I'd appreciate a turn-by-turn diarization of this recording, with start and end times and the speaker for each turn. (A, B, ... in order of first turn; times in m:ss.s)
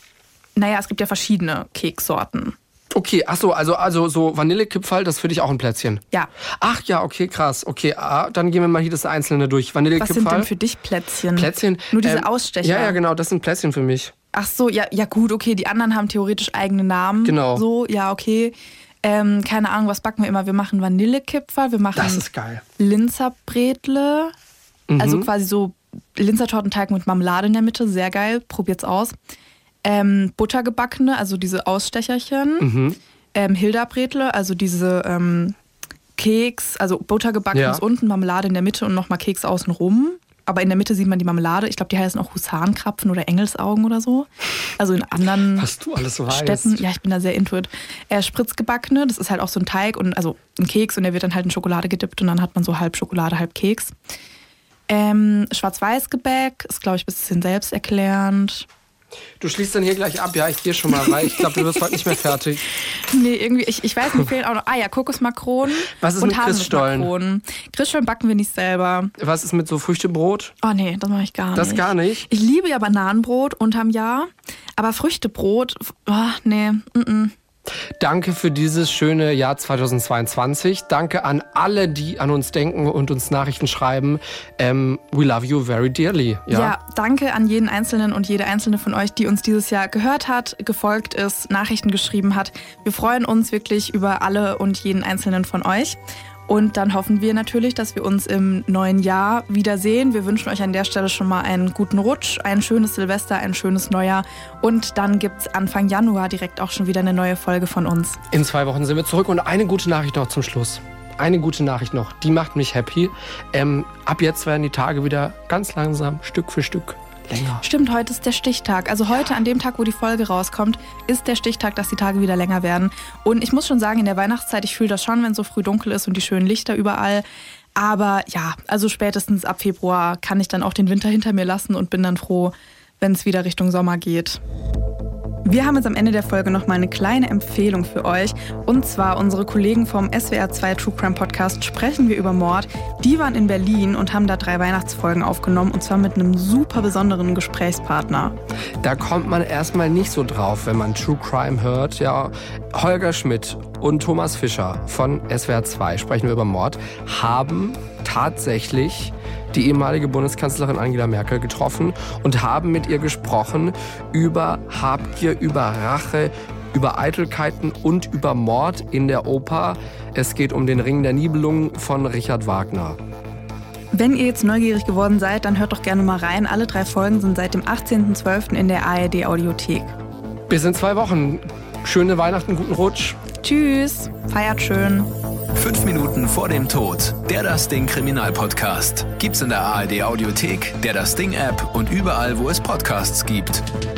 0:00.6-0:02.6 A
0:02.9-0:06.0 B
0:06.6-0:10.5 B
0:10.0-0:13.0 A
0:11.3-0:14.1 B
0:14.3-0:22.2 A
0:17.2-0:17.6 B
0:22.0-0:22.6 B
0:22.8-0:24.3 A
0:24.9-0:25.3 B
0:25.0-0:29.2 A
0:29.8-0:32.7 A
0:32.6-0:33.0 B
0:33.3-0:35.6 A
0:36.2-0:45.7 A
0:37.5-0:37.8 B
0:45.6-0:46.8 B
0:46.3-0:54.0 A
0:54.9-0:58.7 A
0:59.4-1:02.6 B
1:01.0-1:01.8 A
1:02.8-1:09.1 A
1:06.0-1:07.1 B
1:09.2-1:10.5 B
1:10.6-1:17.3 A
1:11.6-1:12.3 B
1:18.0-1:26.8 B
1:26.5-1:48.2 A
1:48.3-1:57.6 B
1:57.6-2:14.4 A
2:15.4-2:28.4 A
2:28.8-2:53.0 B
2:53.9-2:59.9 A
3:00.5-3:03.2 B
3:03.4-3:05.1 A
3:05.6-3:13.6 C